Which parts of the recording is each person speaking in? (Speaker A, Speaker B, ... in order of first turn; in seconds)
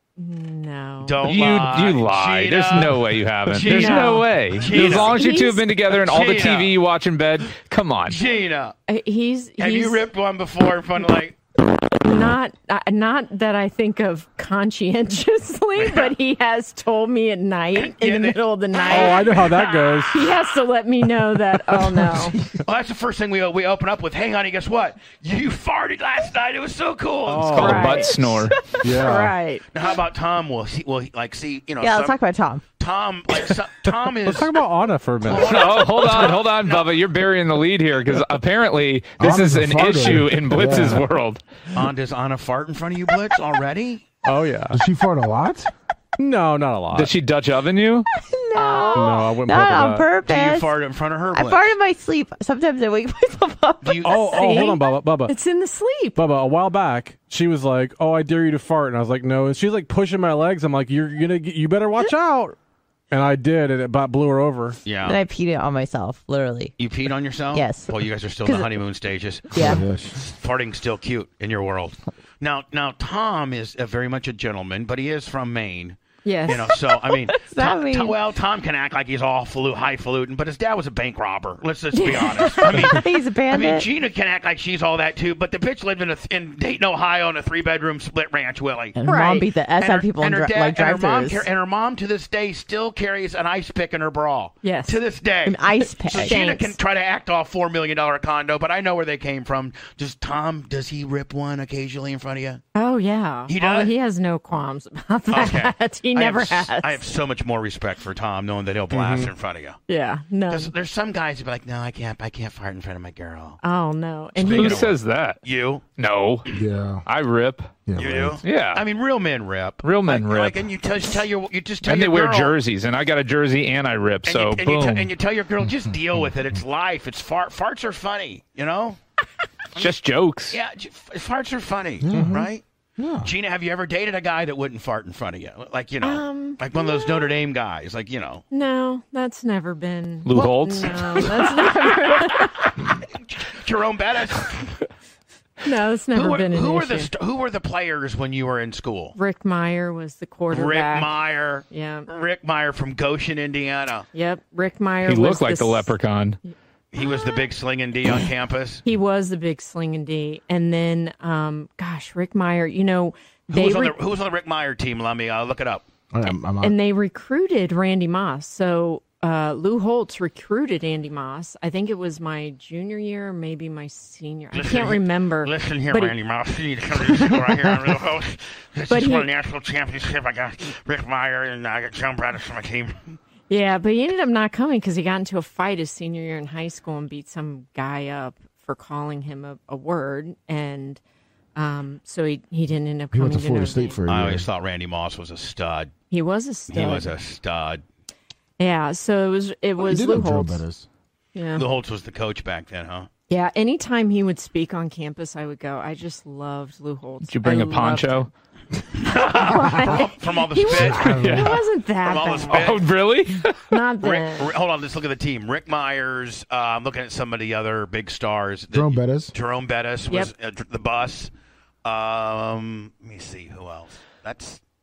Speaker A: 0.2-1.2, 3.7-5.7, 8.9-10.1, 11.7-22.4, 27.6-29.7, 48.5-49.2, 54.2-56.2, 76.2-76.8, 81.9-82.9, 89.0-89.5, 94.6-95.0, 96.1-96.8, 102.8-107.0, 109.9-110.7, 113.6-114.9, 136.0-137.3, 138.5-142.7, 145.7-147.1, 149.2-152.1, 154.1-155.9, 156.5-157.3, 158.8-164.0, 166.6-176.2, 178.9-179.3, 183.5-191.0, 191.6-194.0, 196.1-197.1, 198.6-200.7, 201.3-201.7, 203.3-208.3, 209.1-212.6, 213.7-214.5
Speaker B: 1.0-5.2, 5.9-6.8, 8.1-8.8, 9.6-11.4, 15.8-16.1, 17.7-20.2, 22.6-27.9, 29.7-32.2, 32.8-34.6, 35.2-36.9, 41.8-44.0, 50.2-51.7, 53.8-54.4, 64.8-65.2, 66.8-89.0, 89.8-102.6, 103.5-103.9, 105.3-109.8, 110.5-113.6, 114.4-115.8, 118.0-122.6, 124.3-129.0, 130.5-132.6, 133.2-138.4, 140.3-144.7, 146.1-149.2, 150.5-154.1, 156.9-158.8, 163.5-165.9, 174.5-183.2, 194.1-195.9, 196.7-197.8, 201.6-203.1, 209.0-211.3, 212.0-212.9, 214.0-221.3, 221.8-224.6
Speaker C: 1.2-8.2, 27.5-28.5, 35.3-41.4, 46.9-48.1, 114.4-115.4, 115.9-116.5, 117.1-117.8, 118.4-118.8, 119.8-120.6, 121.8-125.1, 129.8-130.6, 140.2-141.1, 155.0-156.4, 207.2-208.3, 211.0-211.6, 212.5-213.7
Speaker D: 18.9-20.2, 27.3-28.1, 28.8-29.4, 34.3-35.8, 44.2-44.8, 46.2-47.1, 48.9-50.1, 54.0-55.4, 56.2-62.6, 63.1-64.8, 108.9-109.3
Speaker E: 31.8-32.6, 48.4-50.7, 51.3-54.6, 65.0-66.7, 67.5-68.8, 69.5-69.8, 77.4-78.2, 82.7-83.9, 89.0-91.5, 95.5-96.4
Speaker F: 39.2-41.1, 44.7-45.7, 69.6-70.2, 116.5-117.0, 117.8-118.4, 132.0-133.3, 166.1-166.8, 193.1-194.5, 199.8-200.9, 209.5-209.9, 210.7-211.5, 218.7-219.3